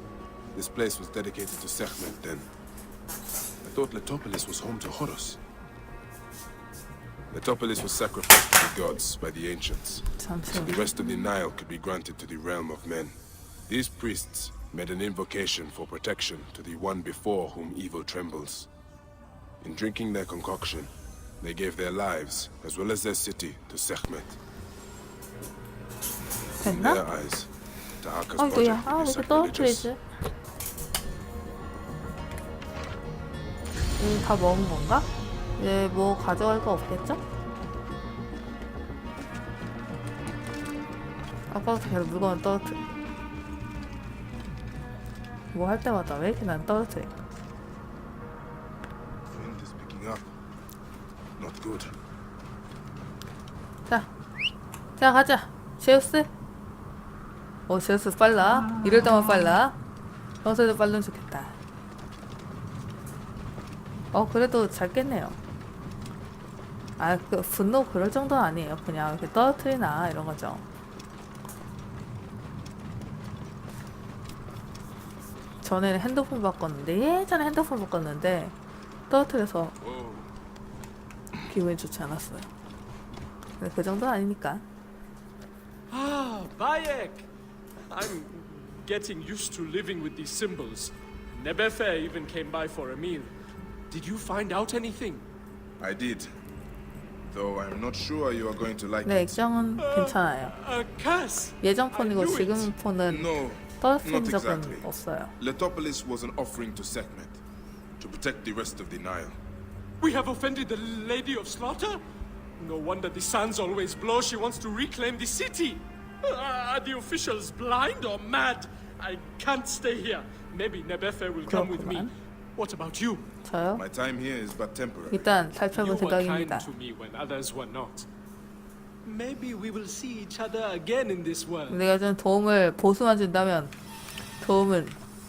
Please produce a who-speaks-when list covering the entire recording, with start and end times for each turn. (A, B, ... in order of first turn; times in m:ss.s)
0:00.5-0:02.5 A
0:03.6-0:05.4 A
0:07.3-0:13.1 A
0:10.2-0:10.8 B
0:13.7-0:18.7 A
0:19.6-0:24.4 A
0:26.6-0:27.0 B
0:26.6-0:29.9 A
0:28.4-0:30.0 B
0:34.0-0:37.2 B
0:41.5-0:42.8 B
0:45.5-0:47.1 B
0:49.3-0:50.3 A
0:51.4-0:52.0 A
0:55.0-0:56.3 B
0:57.7-0:59.8 B
1:00.4-1:01.5 B
1:04.1-1:05.4 B
1:07.0-1:10.6 B
1:15.6-1:18.6 B
1:19.1-1:19.8 B
1:19.8-1:20.3 A
1:21.5-1:22.5 B
1:23.6-1:24.6 B
1:25.9-1:27.3 C
1:27.9-1:33.3 C
1:33.9-1:35.2 C
1:35.8-1:36.4 A
1:37.3-1:39.4 A
1:39.1-1:40.5 B
1:39.8-1:42.7 C
1:41.6-1:45.3 B
1:43.1-1:47.4 A
1:48.0-1:49.4 A
1:50.0-1:52.0 C
1:52.6-2:03.3 C
2:01.5-2:02.1 B
2:03.4-2:03.8 B
2:03.8-2:05.4 A
2:05.1-2:06.7 B
2:05.7-2:08.1 C
2:09.0-2:11.8 C
2:11.7-2:13.7 B
2:14.4-2:15.0 B